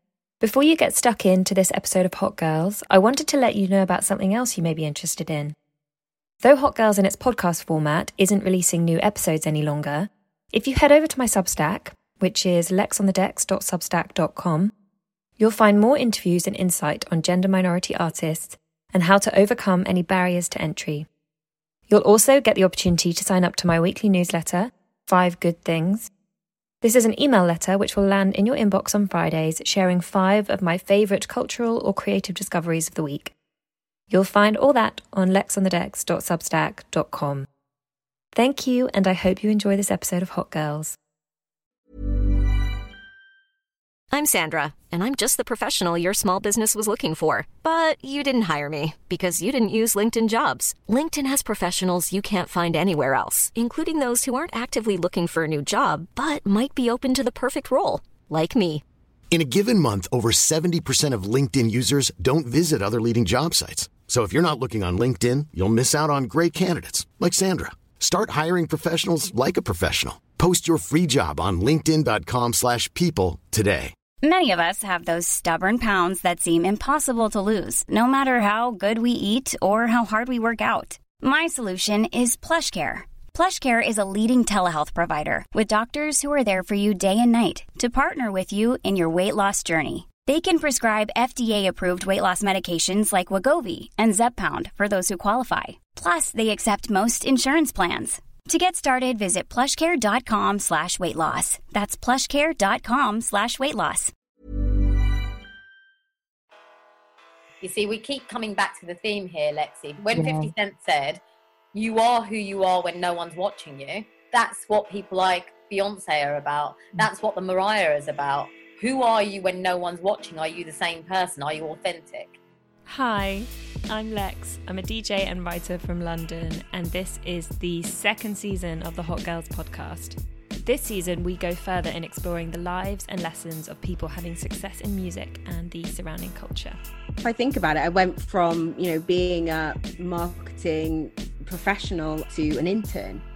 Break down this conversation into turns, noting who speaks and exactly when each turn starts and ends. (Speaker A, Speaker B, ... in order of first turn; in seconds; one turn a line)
Speaker A: 0.4-5.5
Speaker A: 6.4-14.7
Speaker A: 15.4-21.1
Speaker A: 21.9-26.1
Speaker A: 26.8-33.3
Speaker A: 34.1-37.5
Speaker A: 38.3-41.0
Speaker B: 44.1-58.8
Speaker C: 59.3-73.9
Speaker D: 74.2-104.1
Speaker E: 107.6-111.2
Speaker E: 111.7-122.3
Speaker A: 122.9-136.8
Speaker F: 137.2-143.2